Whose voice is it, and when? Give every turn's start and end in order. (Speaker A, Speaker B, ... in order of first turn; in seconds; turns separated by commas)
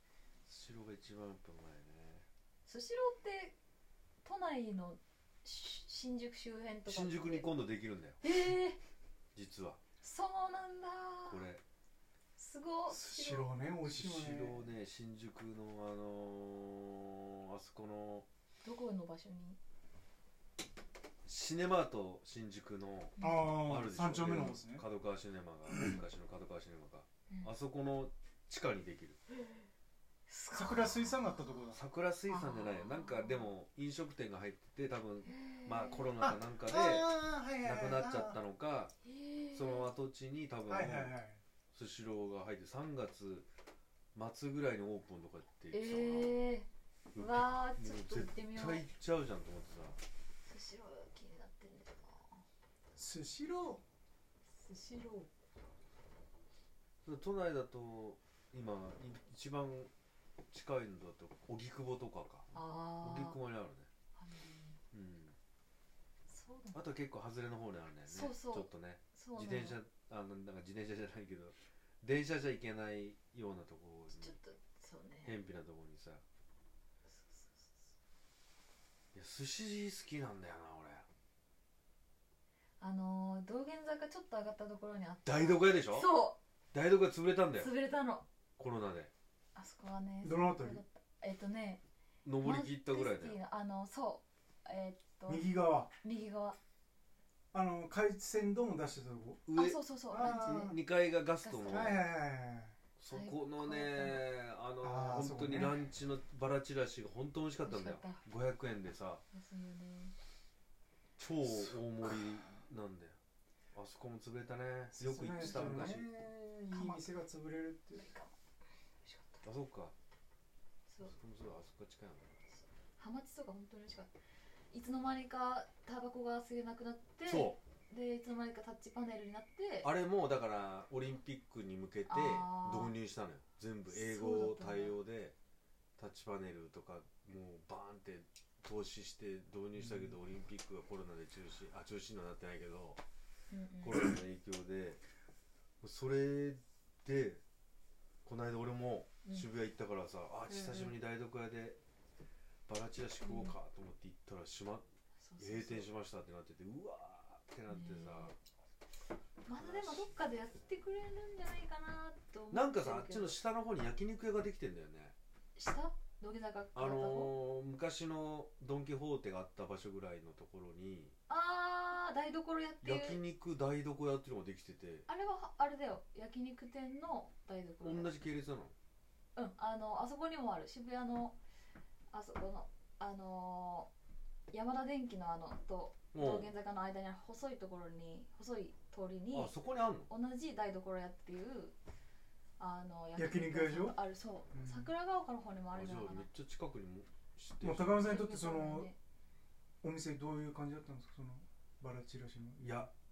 Speaker A: 0.5-2.3, Speaker B: 2.6-3.5, Speaker B: 4.2-7.5, Speaker A: 6.9-8.2, Speaker B: 8.2-8.8, Speaker A: 9.3-9.8, Speaker B: 10.0-11.4, Speaker A: 11.3-11.6, Speaker B: 12.4-13.5, Speaker C: 12.9-14.7, Speaker A: 13.8-18.3, Speaker B: 18.6-19.6, Speaker A: 21.2-29.2, Speaker B: 23.2-23.7, Speaker C: 23.2-24.8, Speaker B: 30.3-31.6, Speaker C: 30.5-31.8, Speaker A: 31.7-38.9, Speaker B: 32.3-33.5, Speaker B: 35.2-36.1, Speaker C: 36.2-38.4, Speaker B: 39.0-39.9, Speaker A: 39.5-41.1, Speaker C: 40.7-41.4, Speaker A: 41.7-43.5, Speaker A: 44.1-46.4, Speaker B: 45.7-48.9, Speaker A: 47.1-50.0, Speaker B: 50.4-52.4, Speaker C: 52.9-53.8, Speaker B: 54.6-55.3, Speaker A: 57.0-59.9, Speaker A: 60.5-62.5, Speaker B: 62.5-63.4, Speaker A: 63.0-63.9, Speaker B: 64.2-64.8, Speaker A: 64.9-65.3, Speaker B: 66.3-66.8, Speaker A: 66.7-74.4, Speaker B: 68.1-69.8, Speaker B: 74.1-75.4, Speaker A: 75.2-76.2, Speaker B: 77.1-77.7, Speaker A: 79.1-81.0, Speaker B: 82.8-86.4, Speaker A: 85.2-86.1, Speaker A: 86.7-87.7, Speaker B: 87.5-88.2, Speaker A: 88.6-89.1, Speaker B: 89.5-91.8, Speaker C: 90.2-90.8, Speaker A: 92.2-93.4, Speaker B: 92.4-95.5, Speaker C: 95.3-95.9, Speaker B: 96.0-96.6, Speaker C: 97.5-99.4, Speaker A: 99.5-102.0, Speaker B: 99.5-100.8, Speaker C: 100.1-100.8, Speaker B: 101.4-102.0, Speaker C: 101.7-102.8, Speaker A: 103.0-109.2, Speaker B: 103.1-104.3, Speaker C: 104.8-105.8, Speaker B: 107.6-108.2, Speaker B: 109.3-110.1, Speaker A: 111.2-113.2, Speaker A: 113.7-116.0, Speaker C: 114.9-118.1, Speaker B: 115.3-115.9, Speaker B: 116.7-117.1, Speaker B: 118.0-118.3, Speaker B: 119.0-119.4, Speaker A: 119.4-119.9, Speaker B: 120.9-121.1, Speaker A: 121.0-122.3, Speaker B: 123.0-124.1, Speaker B: 124.7-129.9, Speaker A: 127.2-127.6, Speaker A: 129.8-135.3, Speaker B: 132.1-132.9, Speaker B: 133.9-135.0, Speaker A: 136.0-143.0, Speaker C: 139.8-140.2, Speaker B: 143.5-144.1, Speaker A: 143.8-145.0, Speaker A: 145.8-147.4, Speaker A: 148.2-151.8, Speaker B: 150.5-150.9, Speaker A: 152.7-154.8, Speaker B: 153.2-153.6, Speaker B: 155.2-155.9, Speaker A: 155.4-158.3, Speaker B: 157.7-158.3, Speaker B: 159.4-163.4, Speaker A: 159.5-160.1, Speaker A: 162.5-165.1, Speaker B: 165.6-167.4, Speaker A: 166.7-171.1, Speaker B: 171.3-173.2, Speaker A: 172.8-175.0, Speaker B: 175.1-178.1, Speaker A: 177.8-178.7, Speaker B: 179.3-181.4, Speaker B: 182.1-183.9, Speaker B: 184.5-189.5, Speaker A: 186.1-186.5, Speaker A: 189.3-190.1, Speaker B: 190.1-191.8, Speaker B: 192.6-196.3, Speaker C: 193.2-194.9, Speaker A: 195.7-198.2, Speaker C: 197.6-198.9, Speaker B: 198.0-198.9, Speaker C: 199.8-202.9, Speaker A: 202.6-202.9